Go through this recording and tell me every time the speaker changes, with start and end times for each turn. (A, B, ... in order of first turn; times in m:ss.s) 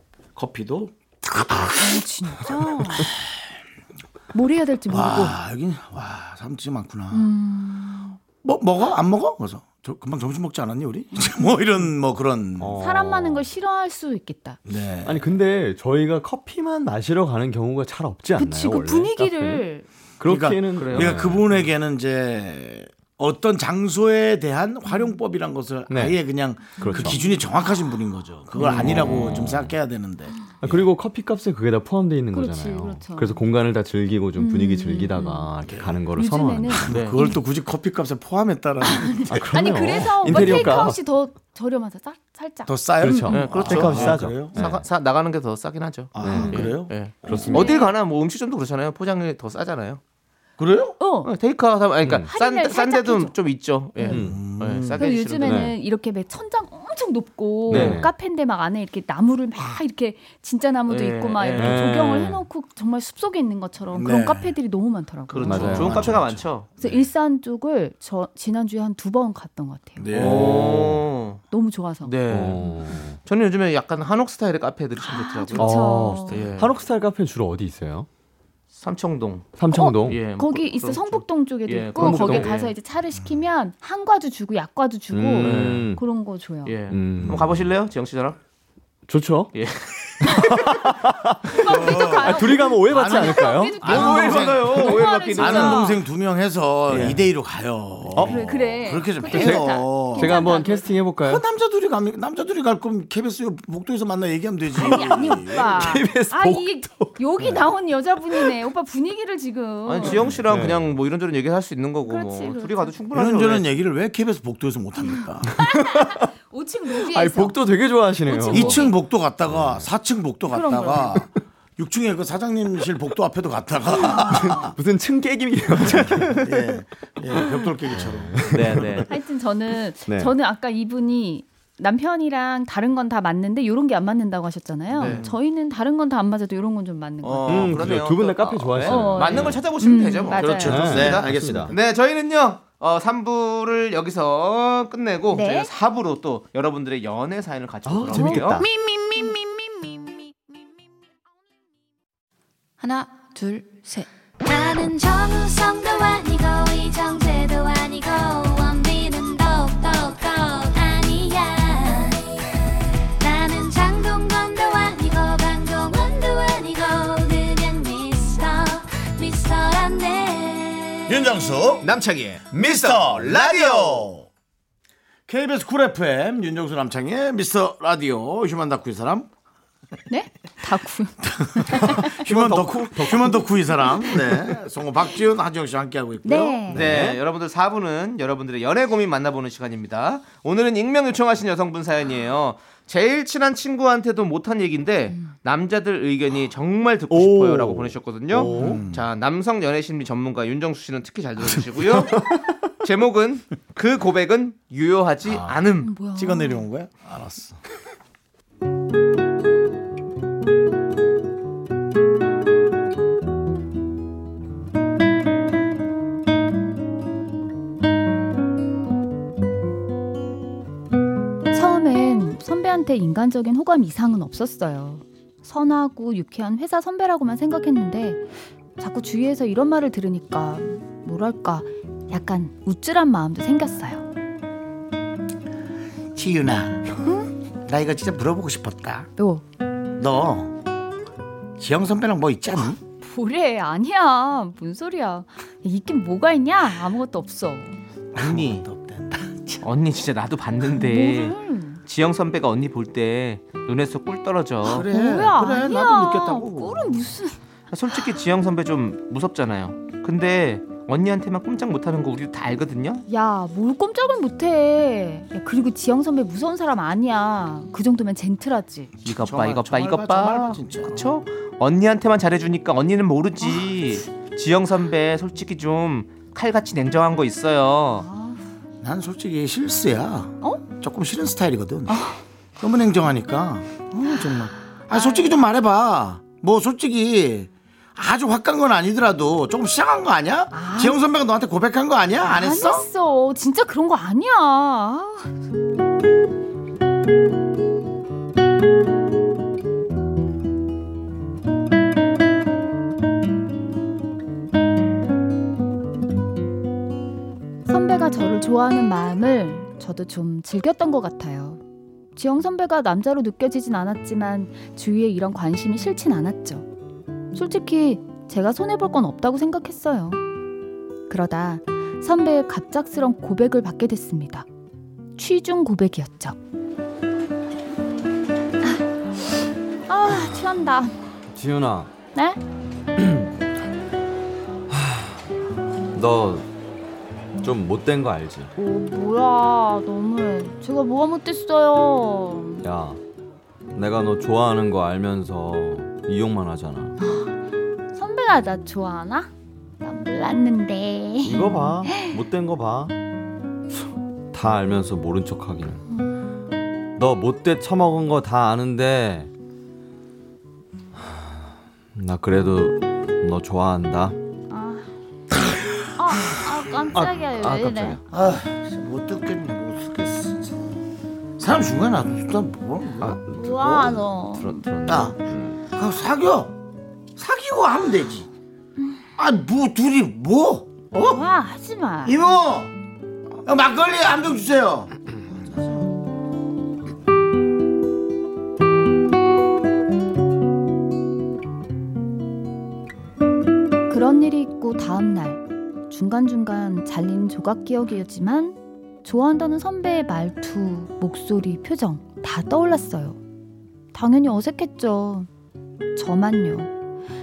0:00.4-0:02.0 A
0:01.8-0:03.2 B
0:04.3-0:05.4 B
0:04.9-0:07.3 A
0:07.1-0:08.2 B
0:08.4-0:12.8 A
0:12.6-0:13.5 C
0:12.8-0:14.6 B
0:14.7-0:15.3 A
0:15.0-0:19.6 C
0:18.4-0:19.9 B
0:20.2-0:21.6 C
0:20.2-0:30.9 A
0:20.8-0:21.2 D
0:25.9-0:26.2 C
0:26.8-0:27.9 B
0:26.8-0:27.2 C
0:28.6-0:29.7 C
0:28.7-0:29.1 D
0:30.6-0:36.9 C
0:32.3-0:33.4 B
0:34.4-0:35.5 B
0:35.7-0:36.0 A
0:36.1-0:37.4 B
0:36.8-0:39.5 A
0:36.9-0:37.2 D
0:38.8-0:43.4 B
0:39.3-0:41.0 C
0:40.3-0:40.8 A
0:42.7-0:44.6 A
0:43.0-0:44.8 C
0:43.3-0:50.0 D
0:46.1-0:47.0 A
0:46.2-0:47.7 C
0:46.2-0:46.7 B
0:47.2-0:47.9 B
0:50.6-0:51.0 A
0:51.0-0:51.3 B
0:51.2-0:55.6 D
0:52.3-0:53.4 B
0:54.0-0:54.3 B
0:54.1-0:54.5 C
0:54.2-0:55.0 A
0:54.9-1:05.9 B
0:55.4-0:55.8 C
0:57.7-0:58.1 C
0:57.7-0:58.0 D
1:00.9-1:01.8 D
1:01.6-1:02.4 C
1:03.9-1:04.6 A
1:05.3-1:06.7 D
1:05.4-1:06.2 C
1:05.6-1:06.9 A
1:06.8-1:10.1 B
1:10.0-1:11.0 A
1:10.1-1:11.4 D
1:10.2-1:11.0 C
1:11.5-1:12.2 B
1:12.0-1:12.6 D
1:12.3-1:13.2 C
1:13.2-1:15.8 D
1:15.0-1:16.5 B
1:15.6-1:18.1 C
1:16.3-1:16.7 D
1:18.7-1:19.5 D
1:19.6-1:20.3 C
1:19.7-1:26.8 B
1:20.0-1:22.7 D
1:22.0-1:22.6 C
1:25.1-1:26.0 C
1:25.4-1:25.9 D
1:26.6-1:28.4 D
1:26.9-1:27.6 C
1:29.1-1:29.5 C
1:29.5-1:30.3 D
1:30.5-1:33.9 C
1:31.5-1:36.0 B
1:31.7-1:40.4 A
1:33.8-1:35.9 D
1:36.9-1:37.2 C
1:36.9-1:37.2 D
1:38.2-1:38.8 C
1:38.2-1:41.0 B
1:39.3-1:41.4 C
1:41.2-1:45.9 A
1:44.8-1:50.3 B
1:45.1-1:47.2 C
1:49.9-1:53.7 D
1:50.5-1:50.9 C
1:52.1-1:53.0 B
1:53.1-1:55.6 A
1:55.0-1:58.9 B
1:57.1-1:58.9 C
1:58.5-2:04.8 A
1:59.5-1:59.9 C
2:00.5-2:01.2 B
2:04.3-2:06.8 C
2:05.8-2:09.0 A
2:07.4-2:09.0 C
2:08.5-2:09.1 D
2:09.1-2:17.8 B
2:10.1-2:10.3 C
2:14.9-2:15.3 D
2:17.2-2:28.6 D
2:17.5-2:19.6 C
2:18.8-2:20.9 B
2:20.3-2:21.8 A
2:20.6-2:21.7 C
2:25.3-2:25.7 B
2:27.9-2:28.7 C
2:28.1-2:29.4 B
2:32.8-2:34.1 B
2:34.4-2:42.3 E
2:43.2-2:51.2 E
2:51.1-2:51.9 A
2:51.8-2:54.1 D
2:52.5-2:54.3 A
2:55.3-2:59.3 A
3:00.1-3:02.2 B
3:01.4-3:06.8 A
3:02.3-3:03.5 C
3:06.2-3:06.8 B
3:06.7-3:22.2 D
3:06.7-3:07.2 C
3:17.1-3:18.8 C
3:18.5-3:19.0 A
3:22.8-3:25.9 D
3:25.2-3:27.6 A
3:25.8-3:26.7 B
3:41.5-3:54.0 B
3:56.1-3:57.0 A
3:57.0-3:57.3 B
3:57.6-3:59.1 A
3:59.2-3:59.4 B
4:00.0-4:00.6 A
4:01.6-4:02.8 A
4:03.0-4:07.8 B
4:08.2-4:09.6 A
4:08.2-4:08.6 D
4:09.6-4:14.9 D
4:10.7-4:11.8 B
4:14.6-4:17.0 A
4:14.7-4:17.4 B
4:17.7-4:23.0 D
4:23.1-4:29.0 B
4:29.0-4:38.1 D
4:29.1-4:31.1 A
4:38.0-4:38.4 B
4:38.8-4:42.0 A
4:41.9-4:42.2 B
4:42.6-4:52.9 A
4:44.0-4:45.4 B
4:50.5-4:51.0 B
4:52.2-4:55.4 B
5:07.7-5:11.6 B
5:12.2-5:16.7 B
5:17.3-5:20.2 B
5:21.1-5:24.5 B
5:25.2-5:26.4 B
5:28.6-5:31.0 B
5:31.3-5:31.9 C
5:32.2-5:32.4 B
5:33.0-5:33.3 C
5:34.7-5:35.2 C
5:35.9-5:36.5 C
5:37.4-5:38.5 C
5:38.6-5:42.6 B
5:42.6-5:43.0 C
5:43.8-5:46.9 C
5:47.0-5:47.3 B
5:47.9-5:49.3 B
5:49.8-5:52.2 B
5:51.2-5:52.9 C
5:54.3-5:55.8 C
5:57.0-5:59.3 C
6:01.0-6:01.4 C
6:02.0-6:04.2 C
6:04.5-6:04.9 B
6:06.0-6:08.0 B
6:06.9-6:08.0 C
6:08.1-6:10.7 A
6:11.4-6:13.2 A
6:13.0-6:15.6 C
6:13.3-6:14.7 B
6:14.9-6:16.5 A
6:17.2-6:18.3 A
6:18.8-6:19.0 B
6:19.2-6:21.2 A
6:21.0-6:22.2 B
6:22.0-6:22.7 A
6:23.4-6:25.9 A
6:33.9-6:43.2 B
6:43.9-6:45.3 B
6:46.0-6:46.7 B